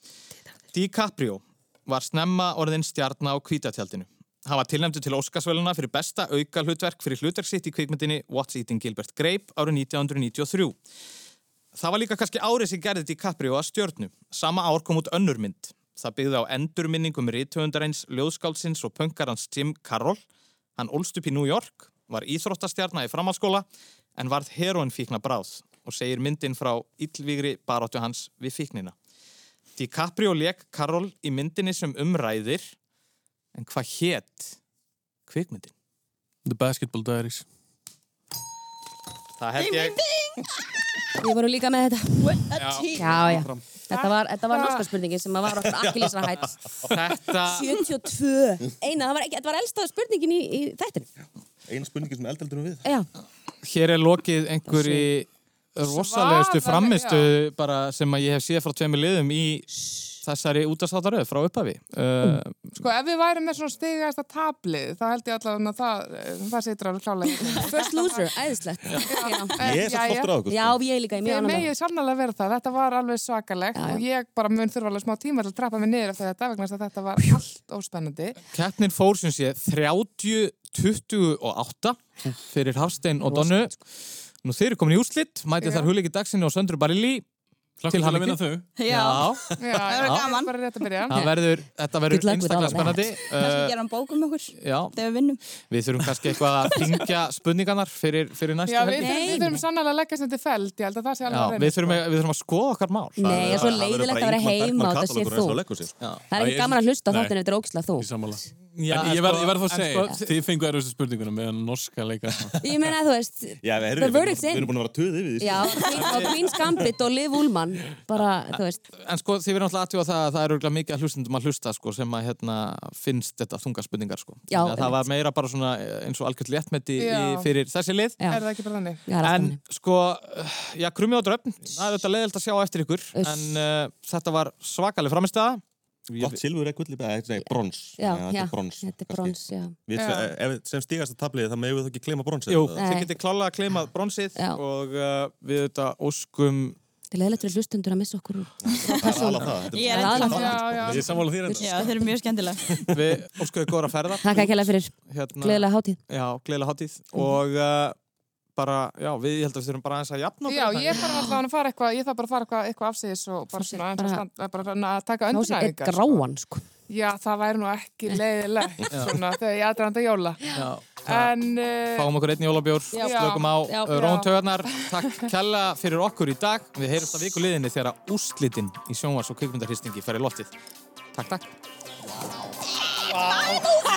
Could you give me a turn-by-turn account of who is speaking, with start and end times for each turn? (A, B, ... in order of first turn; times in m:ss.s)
0:00.7-0:10.8 A
0:11.7-0:20.2 A
0:20.8-0:23.6 A
0:24.2-0:28.9 A
0:29.8-0:32.7 A
0:33.5-0:34.6 A
0:35.3-0:35.7 A
0:36.4-0:37.4 B
0:39.4-0:40.0 A
0:39.6-0:40.6 C
0:41.2-0:42.4 D
0:42.2-0:43.4 C
0:42.6-0:43.0 A
0:43.0-0:51.1 D
0:43.0-0:43.6 E
0:43.9-0:44.9 F
0:45.6-0:46.3 E
0:46.8-0:47.7 A
0:51.6-0:52.9 E
0:52.8-0:53.1 D
0:53.6-0:59.7 A
0:54.7-0:55.1 D
0:55.8-0:57.3 F
1:00.2-1:02.8 A
1:02.7-1:08.3 F
1:07.5-1:09.9 D
1:09.0-1:10.4 F
1:09.6-1:10.8 E
1:10.4-1:11.7 D
1:11.2-1:18.4 F
1:13.7-1:14.0 D
1:18.5-1:23.7 A
1:23.2-1:23.8 D
1:24.4-1:27.2 A
1:25.6-1:25.9 F
1:27.8-1:28.6 B
1:27.8-1:29.4 A
1:28.8-1:30.6 C
1:29.6-1:31.2 F
1:30.0-1:30.2 A
1:31.1-1:33.7 A
1:32.1-1:33.1 D
1:33.3-1:35.4 C
1:34.6-1:35.0 A
1:35.7-1:39.6 A
1:36.6-1:37.0 C
1:38.7-1:42.0 F
1:39.0-1:39.5 D
1:41.3-1:43.8 A
1:43.2-1:45.6 D
1:43.2-1:46.0 E
1:46.3-1:48.1 D
1:46.3-1:47.3 B
1:48.0-1:52.6 B
1:48.7-1:50.3 A
1:52.6-1:54.7 D
1:53.6-1:56.9 E
1:55.4-1:58.8 D
1:55.8-1:56.3 A
1:59.0-2:08.3 A
2:04.5-2:05.0 D
2:07.0-2:07.5 F
2:08.2-2:08.4 D
2:08.3-2:09.0 F
2:09.0-2:09.6 D
2:09.2-2:16.4 A
2:13.1-2:13.6 D
2:16.2-2:22.8 E
2:17.4-2:19.8 D
2:19.9-2:20.3 F
2:22.5-2:26.8 A
2:22.8-2:23.1 D
2:24.3-2:24.6 D
2:27.1-2:32.0 D
2:28.6-2:31.3 E
2:29.7-2:30.6 C
2:30.2-2:31.1 F
2:30.8-2:31.9 B
2:31.6-2:32.8 C
2:32.9-2:34.5 A
2:34.2-2:36.0 D
2:35.0-2:38.0 A
2:38.6-2:41.1 A
2:40.5-2:46.2 F
2:41.0-2:41.3 D
2:43.6-2:44.2 D
2:45.3-2:46.6 D
2:46.9-2:52.1 F
2:50.5-2:51.3 A
2:51.9-3:00.5 A
2:52.9-2:54.0 D
2:52.9-2:54.9 F
3:01.1-3:01.5 A
3:03.1-3:03.6 E